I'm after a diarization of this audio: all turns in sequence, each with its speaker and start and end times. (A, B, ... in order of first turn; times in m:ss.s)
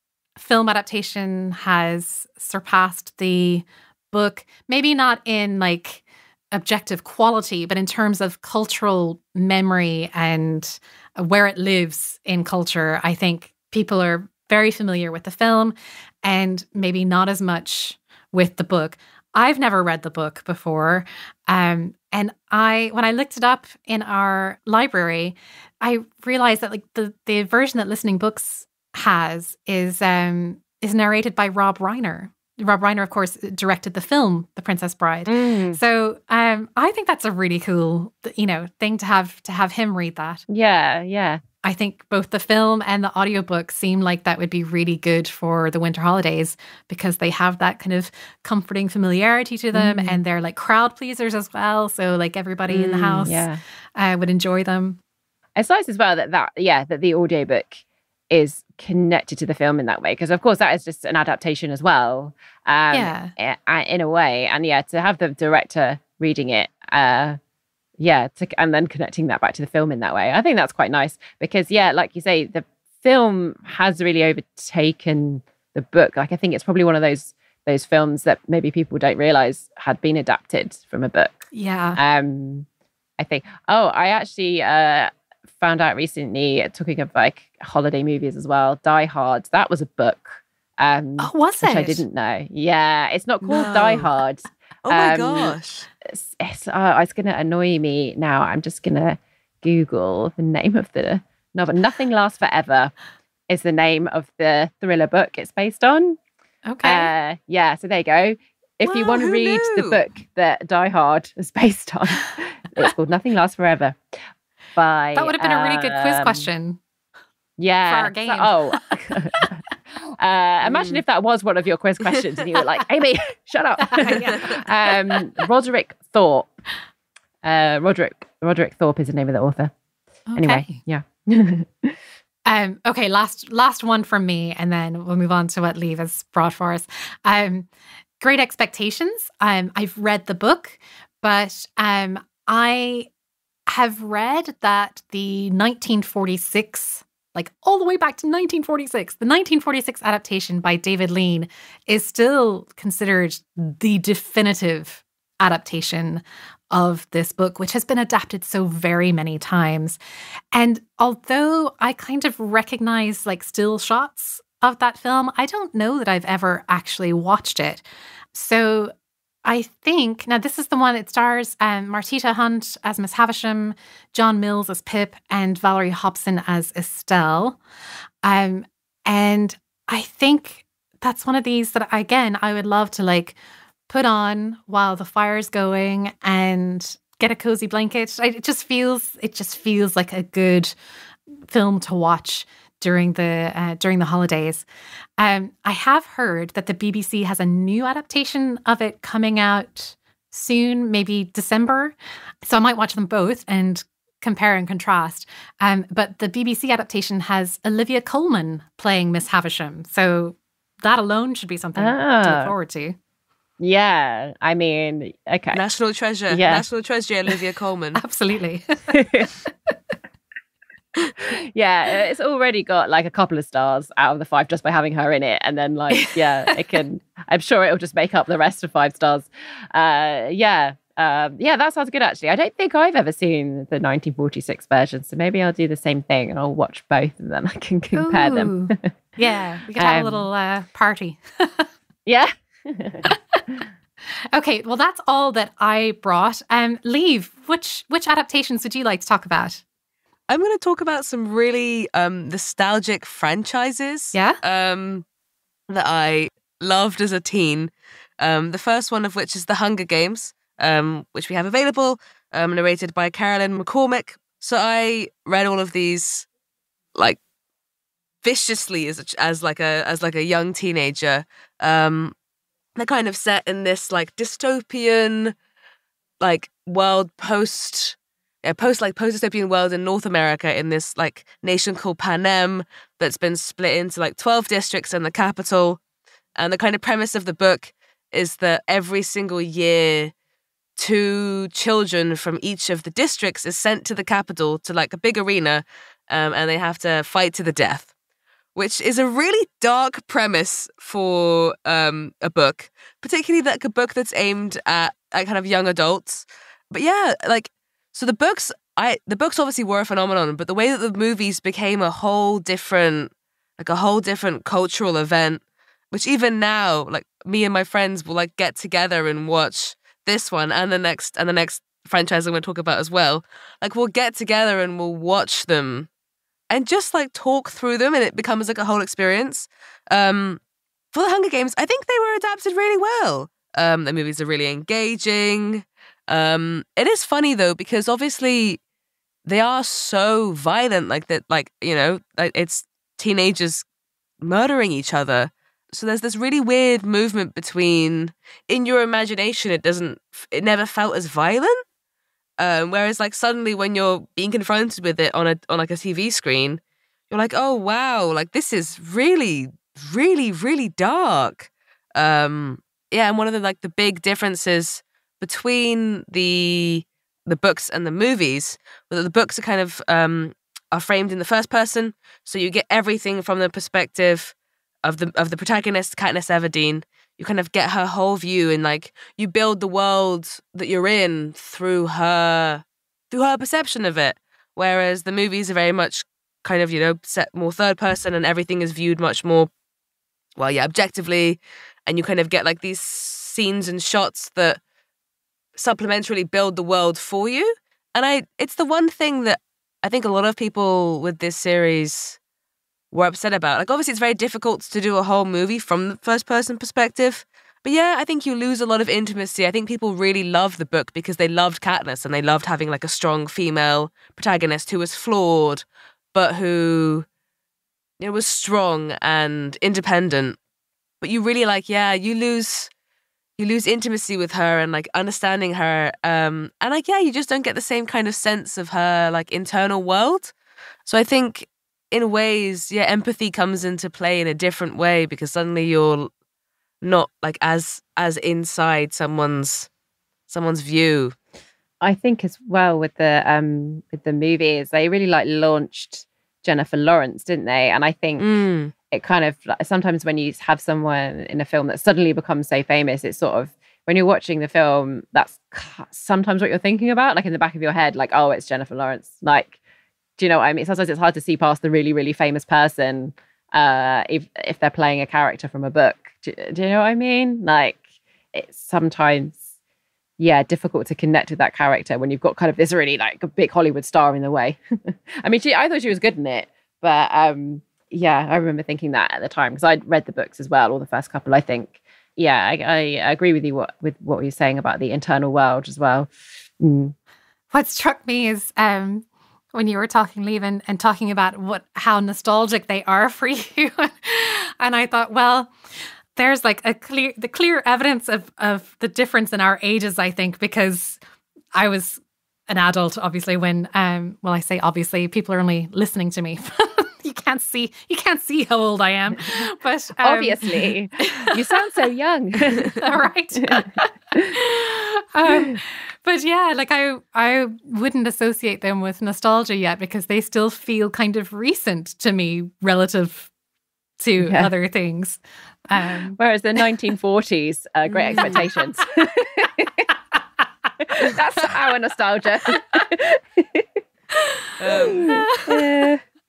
0:00.4-0:40.4 A
0:35.2-0:35.8 B
0:40.5-0:41.4 B
0:41.6-0:55.0 A
0:49.7-0:50.2 B
0:52.7-0:53.6 B
0:55.6-1:07.4 B
1:02.9-1:03.3 A
1:08.0-1:21.4 B
1:21.5-1:22.0 A
1:22.0-1:22.6 B
1:23.2-1:42.9 B
1:31.2-1:32.0 A
1:33.4-1:34.1 C
1:34.8-1:35.9 C
1:43.5-1:46.2 B
1:46.6-1:47.1 A
1:46.8-1:54.0 B
1:48.8-1:50.0 C
1:54.8-1:56.5 B
1:55.1-1:56.8 A
1:57.6-2:06.5 B
1:57.9-1:58.8 A
2:00.6-2:01.0 C
2:03.8-2:04.7 A
2:07.4-2:09.7 B
2:10.3-2:10.8 A
2:10.4-2:12.0 B
2:12.5-2:17.7 A
2:18.2-2:23.1 A
2:23.7-2:40.0 A
2:40.5-2:48.9 A
2:49.4-2:57.6 A
2:58.2-3:03.4 A
3:03.9-3:10.7 A
3:11.5-3:14.6 A
3:15.2-3:33.0 A
3:31.8-3:32.5 B
3:33.6-3:35.6 B
3:35.5-3:38.0 C
3:36.3-3:36.6 B
3:38.0-3:38.7 A
3:38.9-3:39.3 B
3:41.4-3:58.9 B
3:57.9-4:01.7 A
3:59.8-4:00.3 B
4:02.0-4:03.1 B
4:03.1-4:03.4 A
4:04.3-4:09.6 A
4:10.3-4:15.0 C
4:14.1-4:14.4 A
4:15.7-4:26.3 C
4:28.2-4:32.1 C
4:32.8-4:35.3 C
4:36.2-4:45.8 C
4:46.4-4:50.1 C
4:50.8-4:57.9 C
4:58.5-5:25.9 C
5:26.5-5:30.4 C
5:30.9-5:38.6 C
5:39.2-5:43.6 C
5:44.2-5:51.6 C
5:52.4-6:29.5 C
6:30.4-6:34.6 C
6:35.6-6:42.2 C
6:42.9-6:57.0 C
6:58.0-7:00.4 C
7:01.0-7:02.7 C
7:03.4-7:10.3 C
7:10.8-7:16.1 C
7:16.8-7:19.7 C
7:20.3-7:21.2 C
7:21.8-7:39.6 B
7:28.2-7:28.7 C
7:40.2-7:47.8 B
7:48.3-7:49.4 B
7:50.2-8:06.9 B
8:07.5-8:15.5 A
8:16.1-8:21.0 A
8:21.5-8:31.4 A
8:30.0-8:32.9 B
8:32.8-8:43.3 A
8:35.3-8:35.5 B
8:44.0-8:46.2 A
8:44.2-8:44.5 B
8:46.2-8:49.9 B
8:48.1-8:48.4 A
8:50.8-8:53.8 B
8:54.1-8:55.6 A
8:54.6-8:55.1 C
8:54.7-8:56.0 B